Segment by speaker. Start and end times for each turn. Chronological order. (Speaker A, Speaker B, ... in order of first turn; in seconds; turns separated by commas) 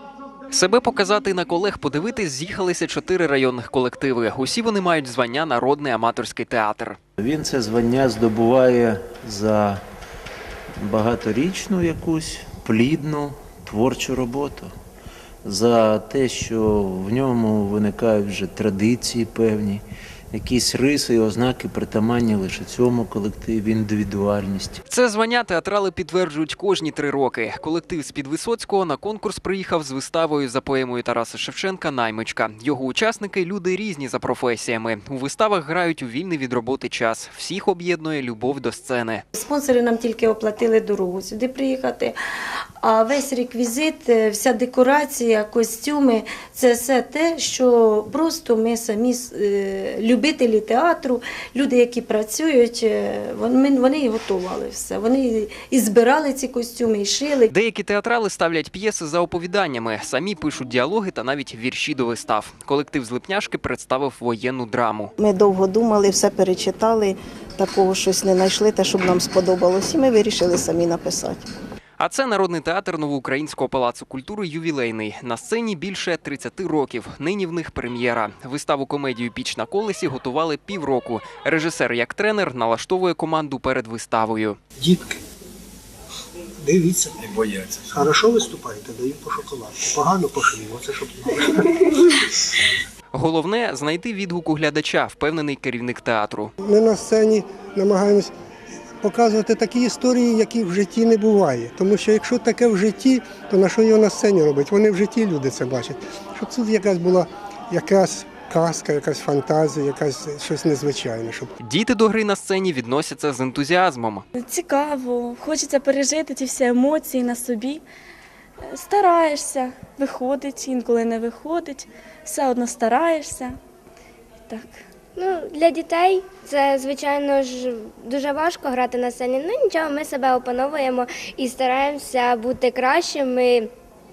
Speaker A: 0.5-7.0, Speaker B: 7.2-9.8, Speaker B: 10.8-14.7, Speaker B: 15.4-24.8, Speaker A: 24.9-39.2, Speaker C: 39.3-42.1, Speaker C: 42.8-57.5, Speaker A: 57.5-65.1, Speaker D: 65.2-71.4, Speaker A: 72.0-84.6, Speaker E: 84.8-85.2, Speaker E: 86.6-87.4, Speaker E: 87.9-92.0, Speaker A: 93.1-96.5, Speaker F: 96.6-98.3, Speaker F: 99.0-111.5, Speaker A: 111.6-114.2, Speaker G: 114.4-117.8, Speaker G: 118.8-123.5, Speaker H: 125.2-133.7